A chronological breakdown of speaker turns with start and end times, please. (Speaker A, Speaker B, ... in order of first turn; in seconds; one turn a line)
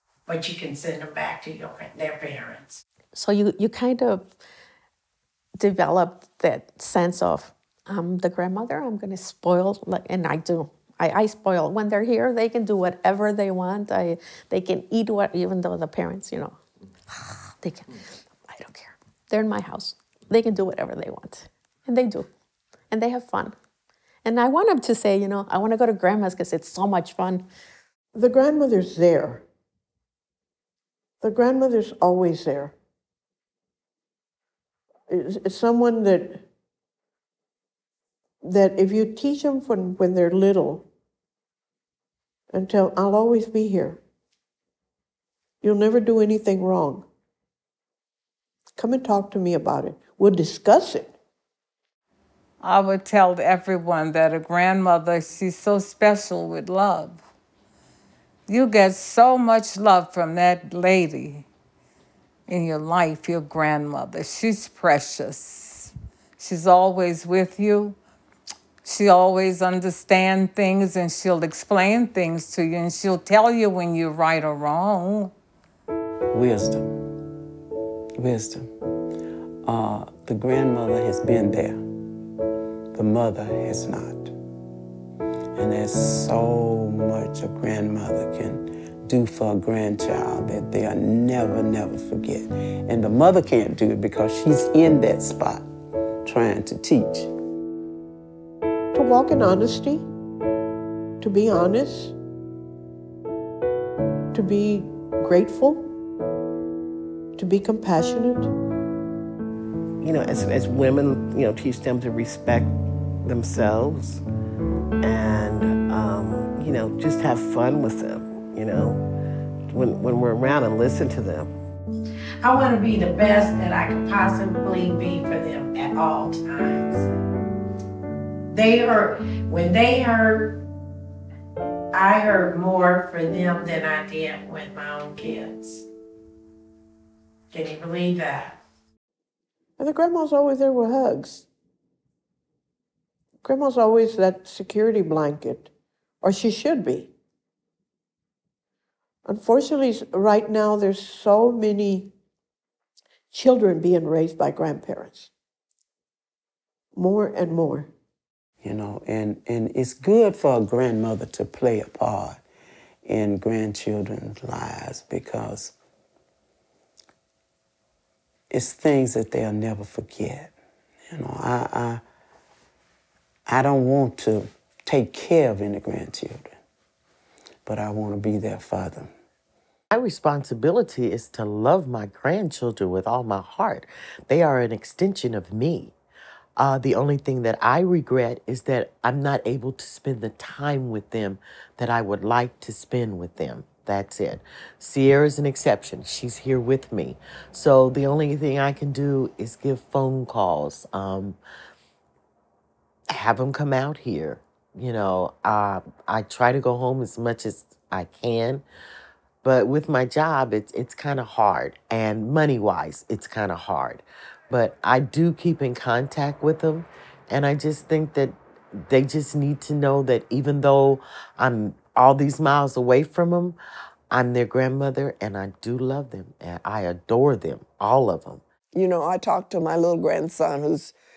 Speaker A: 0.3-2.8
Speaker B: 3.1-4.3
Speaker B: 5.6-16.6
Speaker B: 17.1-22.3
Speaker B: 22.9-23.5
Speaker B: 24.2-27.5
Speaker C: 28.1-29.4
Speaker C: 31.2-32.7
Speaker C: 35.1-36.4
Speaker C: 38.4-40.9
Speaker C: 42.5-44.0
Speaker C: 45.6-47.0
Speaker C: 48.8-51.1
Speaker D: 52.6-57.2
Speaker D: 58.5-61.5
Speaker D: 62.5-68.0
Speaker D: 68.8-75.3
Speaker E: 76.3-76.9
Speaker E: 78.2-78.7
Speaker E: 79.6-81.8
Speaker E: 82.9-84.3
Speaker E: 85.5-95.7
Speaker E: 96.2-97.3
Speaker C: 98.9-100.1
Speaker C: 101.2-102.1
Speaker C: 104.3-105.9
Speaker C: 107.3-108.5
Speaker F: 110.0-114.2
Speaker F: 115.0-119.0
Speaker F: 119.7-121.5
Speaker A: 122.4-127.1
Speaker A: 128.5-130.6
Speaker A: 131.9-135.8
Speaker A: 137.5-138.6
Speaker C: 139.8-141.4
Speaker C: 143.4-145.7
Speaker C: 146.2-147.1
Speaker C: 149.2-152.1
Speaker C: 153.3-155.3
Speaker C: 156.9-157.9
Speaker E: 158.6-162.4
Speaker E: 163.0-165.7
Speaker E: 168.5-170.5
Speaker E: 171.1-172.0
Speaker E: 173.5-176.6
Speaker E: 177.7-179.1
Speaker G: 179.9-185.9
Speaker G: 186.6-201.4
Speaker G: 203.1-208.6
Speaker G: 209.4-223.6
Speaker G: 224.1-228.4
Speaker H: 228.7-230.9